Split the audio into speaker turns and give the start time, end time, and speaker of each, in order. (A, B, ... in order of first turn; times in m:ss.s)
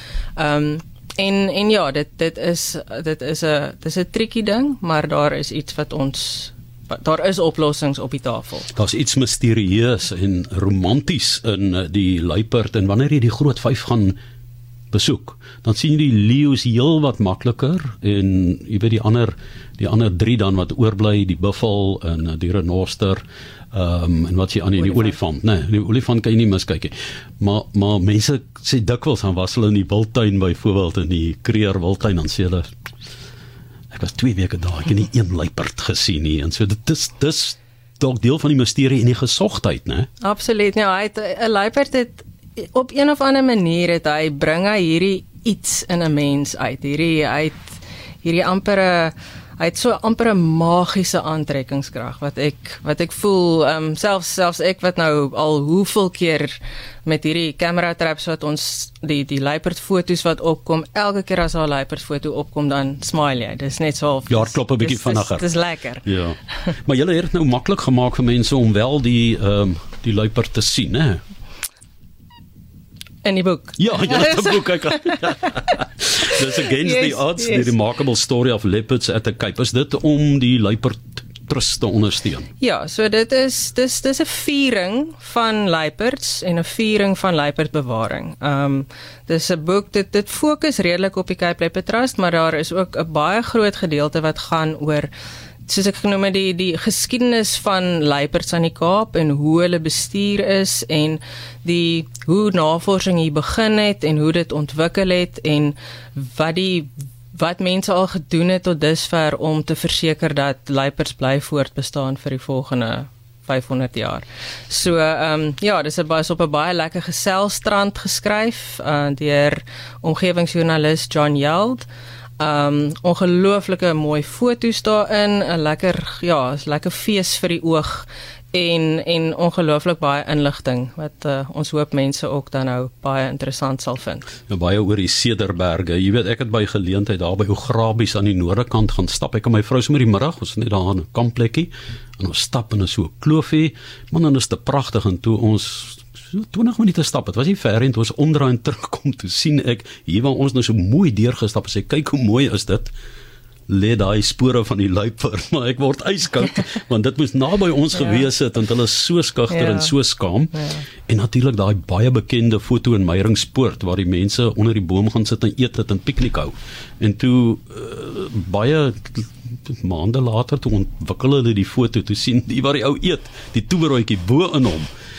0:00.4-0:08.7 A
0:08.7-0:14.2 B
0:14.9-0:32.7 B
0:24.8-0:25.2 A
0:33.9-0:40.1 B
0:40.2-1:06.1 A
1:04.3-1:05.5 B
1:06.0-1:11.2 B
1:13.2-1:15.6 A
1:13.8-1:22.5 B
1:16.6-1:17.8 A
1:22.6-1:35.1 A
1:35.7-2:01.9 A
2:02.4-2:14.3 A
2:14.5-2:32.9 B
2:33.7-2:54.9 B
2:38.0-2:38.3 A
2:39.5-2:39.9 A
2:40.5-2:40.8 A